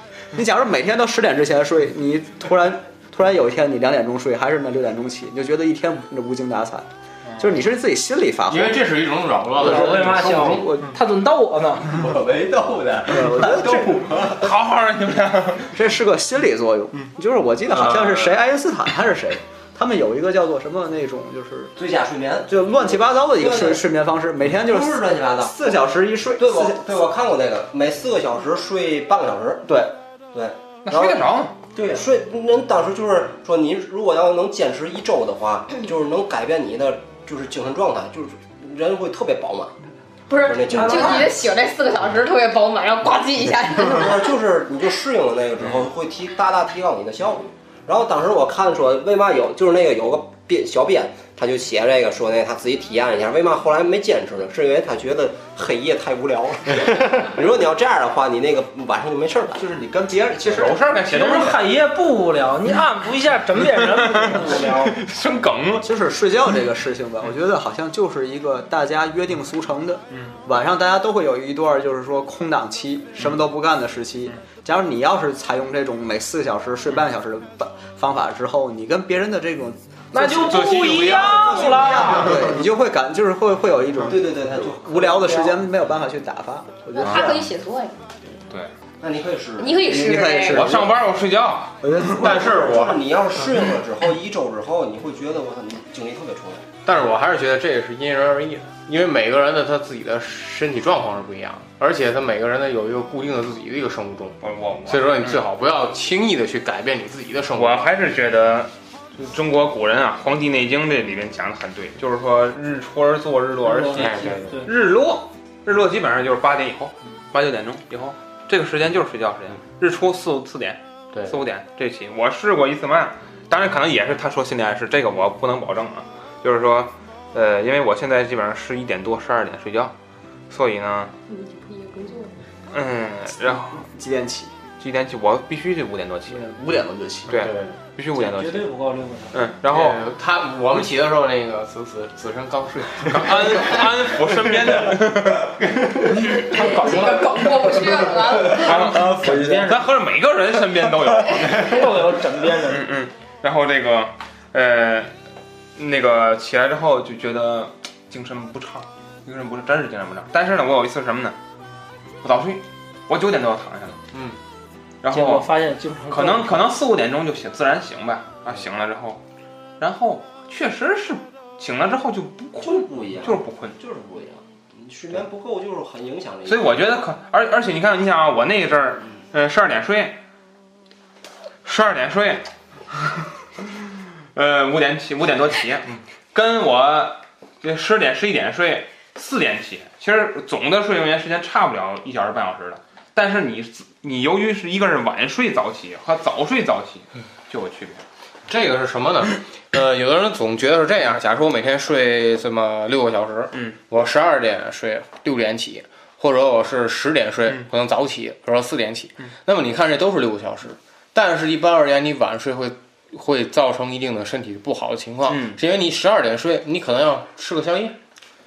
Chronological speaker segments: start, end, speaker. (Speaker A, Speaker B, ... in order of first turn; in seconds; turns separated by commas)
Speaker A: 0.3-8.9, Speaker B: 7.3-7.5, Speaker C: 8.5-10.7, Speaker D: 9.6-11.9, Speaker A: 9.6-10.9, Speaker E: 11.8-14.5, Speaker A: 13.1-14.4, Speaker B: 14.4-15.7, Speaker A: 15.7-21.7, Speaker C: 17.7-18.3, Speaker E: 21.8-23.9, Speaker A: 22.5-27.1, Speaker E: 24.5-29.8, Speaker A: 29.7-29.9, Speaker E: 30.3-31.3, Speaker B: 30.9-31.6, Speaker D: 31.8-32.0, Speaker E: 31.8-39.7, Speaker F: 40.3-44.2, Speaker E: 40.3-41.5, Speaker E: 43.8-59.6, Speaker A: 59.5-60.9, Speaker B: 60.4-61.7, Speaker D: 61.0-64.9, Speaker B: 63.8-65.9, Speaker E: 64.4-64.9, Speaker A: 65.8-87.4, Speaker D: 80.1-82.4, Speaker C: 80.6-80.9, Speaker B: 80.8-81.1, Speaker E: 81.5-82.2, Speaker E: 84.0-85.6, Speaker F: 87.0-88.1, Speaker B: 87.0-87.4, Speaker E: 89.0-90.0, Speaker F: 89.6-90.7, Speaker A: 89.8-90.9, Speaker B: 90.5-92.0, Speaker A: 91.8-92.7, Speaker C: 92.2-93.0, Speaker E: 92.2-96.7, Speaker C: 96.8-107.9, Speaker B: 104.4-105.4, Speaker B: 107.5-129.9, Speaker D: 113.6-114.7, Speaker C: 113.9-114.6, Speaker C: 121.1-121.4, Speaker B: 130.5-131.1, Speaker F: 131.3-132.4, Speaker B: 132.7-133.9, Speaker A: 133.5-134.5, Speaker B: 134.8-136.5, Speaker A: 136.3-137.3, Speaker B: 137.3-138.7, Speaker C: 137.3-137.8, Speaker D: 138.2-139.4, Speaker B: 139.3-140.0, Speaker C: 139.7-143.9, Speaker B: 143.1-145.6, Speaker D: 146.0-147.3, Speaker F: 146.1-148.8, Speaker B: 148.5-152.1, Speaker A: 148.6-149.8, Speaker D: 149.1-149.8, Speaker D: 151.5-152.8, Speaker B: 152.7-155.1, Speaker B: 155.8-161.4, Speaker B: 162.2-164.0, Speaker C: 164.1-164.4, Speaker B: 165.0-165.5, Speaker D: 165.1-166.7, Speaker B: 166.1-169.2, Speaker B: 169.8-173.8, Speaker E: 172.6-177.0, Speaker B: 176.5-180.2, Speaker B: 181.7-182.5, Speaker B: 183.1-183.7, Speaker B: 184.3-198.0, Speaker C: 198.5-218.0, Speaker B: 203.5-203.8, Speaker B: 215.3-215.6